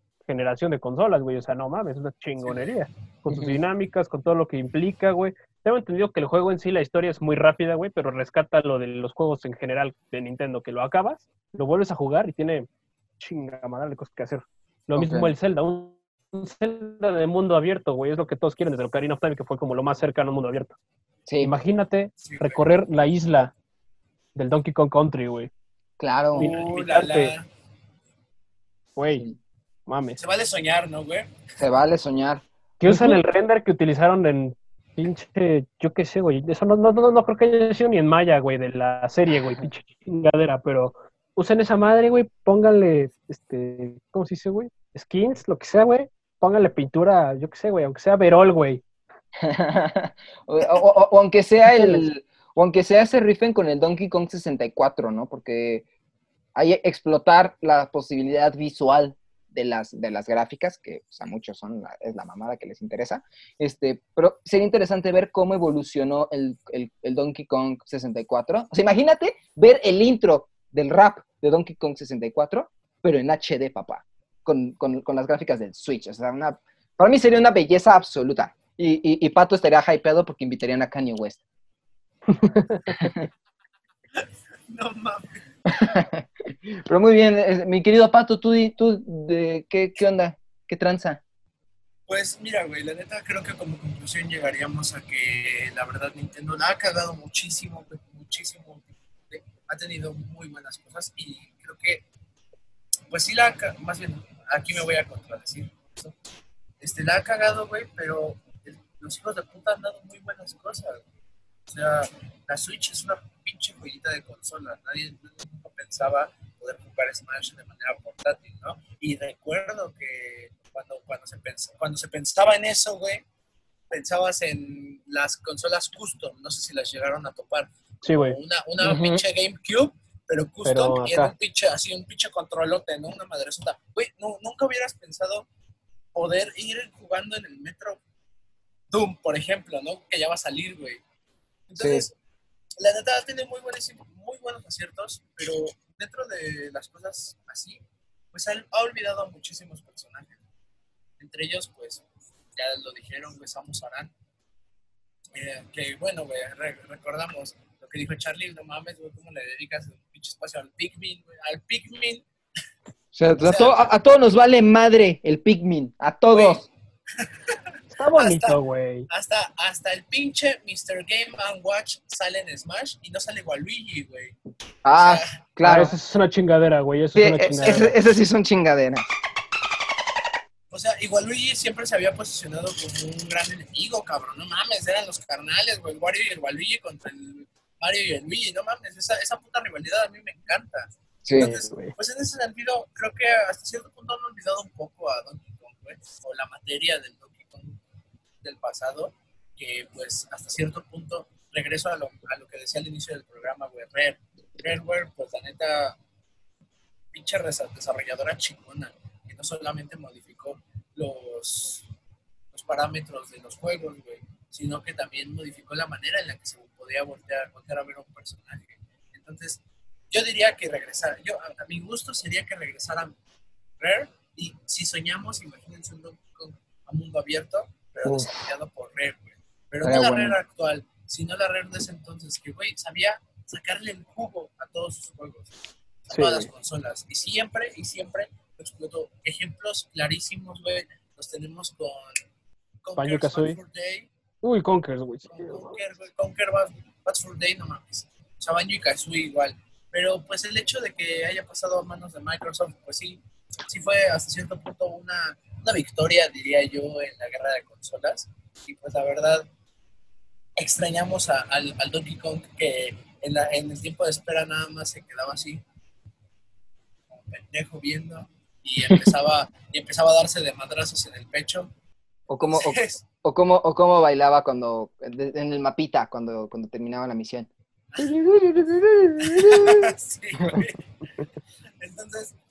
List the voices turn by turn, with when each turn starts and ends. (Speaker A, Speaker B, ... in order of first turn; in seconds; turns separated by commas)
Speaker A: 0.2-12.7, Speaker B: 2.4-2.8, Speaker C: 3.3-3.6, Speaker A: 13.2-20.7, Speaker C: 14.9-15.3, Speaker C: 21.3-21.5, Speaker A: 21.4-23.5, Speaker B: 22.2-22.7, Speaker A: 24.3-25.5, Speaker C: 26.0-26.5, Speaker B: 26.4-27.4, Speaker A: 26.4-27.3, Speaker A: 28.9-29.2, Speaker A: 29.9-30.2, Speaker B: 30.2-31.3, Speaker C: 31.6-33.2, Speaker A: 32.8-48.8, Speaker C: 49.4-55.8, Speaker A: 51.7-52.0, Speaker C: 56.5-81.4, Speaker A: 82.3-83.1, Speaker B: 84.7-86.0, Speaker C: 85.7-91.2, Speaker B: 92.1-102.0, Speaker B: 103.1-106.1, Speaker B: 106.8-111.0, Speaker B: 111.7-123.2, Speaker B: 123.9-135.5, Speaker A: 128.0-128.4, Speaker C: 128.8-129.2, Speaker A: 130.6-131.3, Speaker B: 136.1-138.0, Speaker B: 138.9-141.0, Speaker B: 141.7-142.1, Speaker C: 141.8-142.1, Speaker B: 142.8-147.8, Speaker B: 148.3-150.4, Speaker B: 151.2-152.0, Speaker B: 152.6-154.1, Speaker B: 155.3-162.2, Speaker C: 163.1-166.7, Speaker B: 163.4-163.9, Speaker B: 166.3-166.7, Speaker B: 167.2-167.6, Speaker A: 167.9-169.1, Speaker B: 168.1-168.6, Speaker B: 169.1-174.4, Speaker C: 174.8-175.9, Speaker B: 174.9-175.3, Speaker A: 175.6-177.9, Speaker C: 177.2-179.1, Speaker B: 180.7-197.8, Speaker C: 191.2-191.5, Speaker A: 191.4-191.9, Speaker B: 198.4-206.0, Speaker B: 207.1-211.8, Speaker B: 212.5-223.1, Speaker B: 223.8-235.5, Speaker C: 228.0-228.4, Speaker C: 229.8-230.4, Speaker B: 236.1-242.2, Speaker A: 236.1-236.5, Speaker B: 242.8-244.1, Speaker A: 243.0-243.6, Speaker A: 244.4-245.7, Speaker B: 245.3-259.4, Speaker B: 260.6-265.6, Speaker B: 267.1-271.7, Speaker C: 272.3-277.5, Speaker B: 272.5-273.0, Speaker C: 278.0-279.8, Speaker B: 279.3-280.8, Speaker B: 281.8-282.3